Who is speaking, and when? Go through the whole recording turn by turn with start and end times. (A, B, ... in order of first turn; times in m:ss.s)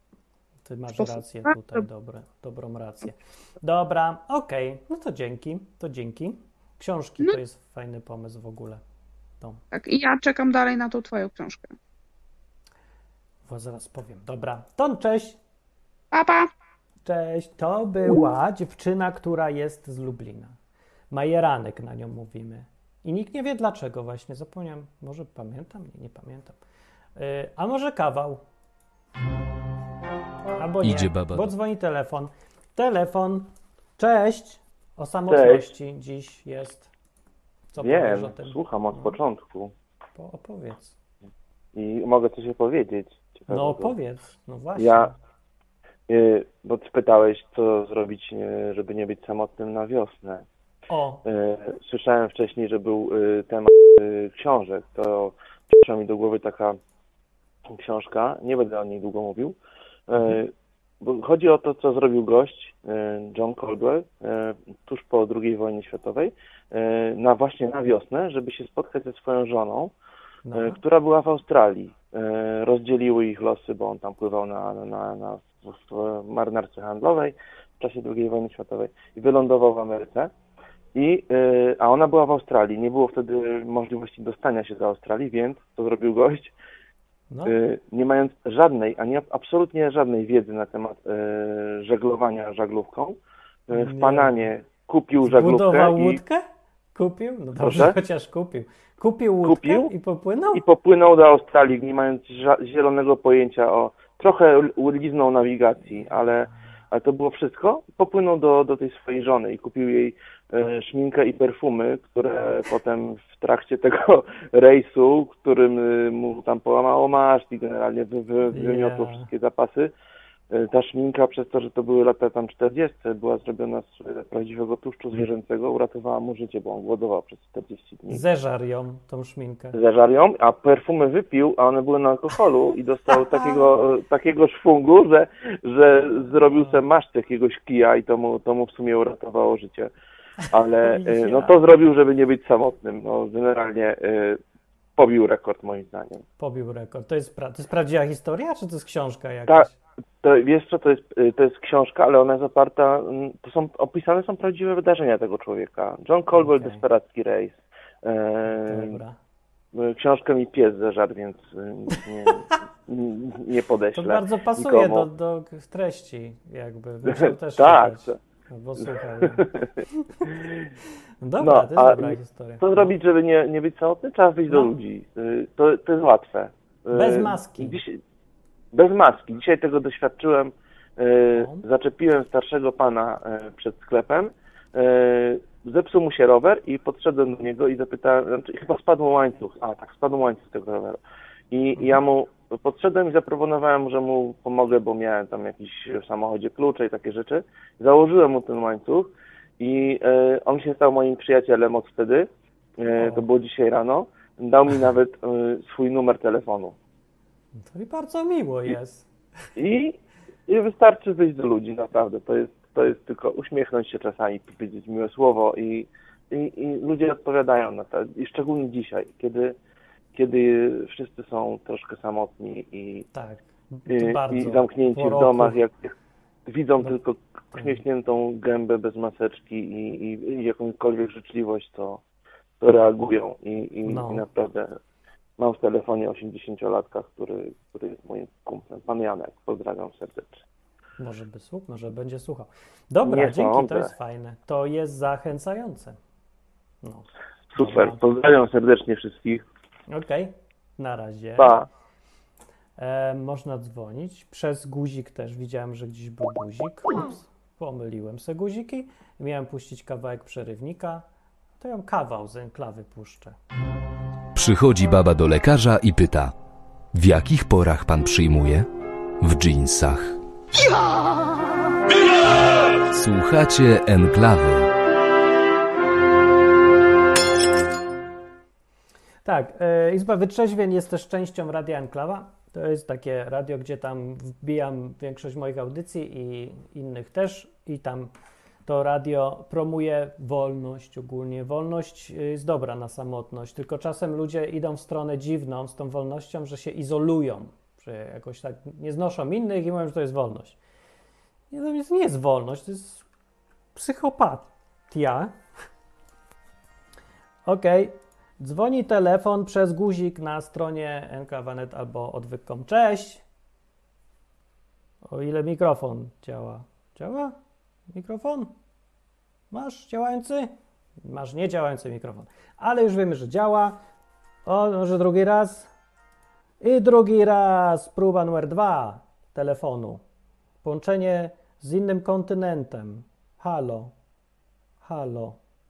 0:00.6-0:08.8 A
0:09.7-0:11.7 B
0:13.5-0:15.4 A
0:16.1-0:16.5 B
0:17.0-0:20.5 A
0:21.1-0:26.6 A
0:27.2-0:28.4 A
0:30.6-0:36.9 A
0:30.8-0:31.5 C
0:35.3-0:35.7 D
0:37.7-0:39.2 A
0:37.8-0:39.7 D
0:40.2-0:40.9 A
0:41.7-0:43.9 D
0:43.5-0:45.1 A
0:44.8-0:45.1 D
0:46.1-0:50.4 D
0:50.9-0:51.2 A
0:51.2-0:56.8 D
0:57.7-0:59.6 D
1:00.1-1:09.9 D
1:10.4-1:10.8 A
1:10.5-1:20.3 D
1:20.9-1:26.5 D
1:27.4-1:33.2 D
1:33.7-1:36.2 D
1:33.7-1:34.4 A
1:35.2-1:36.4 A
1:36.9-1:40.6 A
1:37.6-1:38.0 D
1:39.4-1:39.9 D
1:40.5-1:59.9 D
1:58.5-1:59.3 A
2:00.5-2:08.2 D
2:08.1-2:09.7 A
2:09.7-2:19.9 D
2:16.2-2:16.8 A
2:20.5-2:24.4 D
2:20.8-2:21.6 A
2:25.0-2:26.2 D
2:26.4-2:29.7 A
2:30.2-2:39.0 D
2:36.3-2:36.8 A
2:38.5-2:39.2 A
2:39.7-2:45.1 D
2:43.9-2:50.3 A
2:47.0-2:48.2 D
2:48.8-2:49.7 D
2:51.2-2:52.9 A
2:51.4-2:58.0 D
2:56.9-2:57.8 A
2:58.7-3:11.0 D
3:01.3-3:01.6 A
3:11.5-3:26.8 D
3:22.9-3:23.2 A
3:27.6-3:29.1 A
3:29.6-3:39.5 D
3:40.1-3:43.1 D
3:43.1-3:45.6 A
3:43.9-3:45.9 D
3:46.4-3:52.0 D
3:47.5-3:47.8 A
3:52.6-3:54.8 D
3:53.8-3:54.2 A
3:55.4-4:00.4 D
4:01.0-4:06.0 A
4:03.0-4:03.9 D
4:06.8-4:08.0 A
4:07.5-4:09.4 D
4:09.9-4:11.6 A
4:11.4-4:11.7 D
4:12.8-4:21.0 A
4:21.6-4:23.4 A
4:24.3-4:26.3 C
4:26.9-4:28.6 C
4:29.2-4:30.2 C
4:32.9-4:34.7 C
4:39.2-4:48.1 A
4:48.6-5:00.6 A
5:01.5-5:03.0 A
5:03.7-5:05.3 A
5:07.4-5:13.2 A
5:15.0-5:17.3 A
5:17.9-5:18.5 A
5:19.5-5:20.5 A
5:21.0-5:23.8 A
5:24.4-5:25.7 A
5:26.6-5:30.0 A
5:30.6-5:33.9 A
5:34.8-5:35.4 A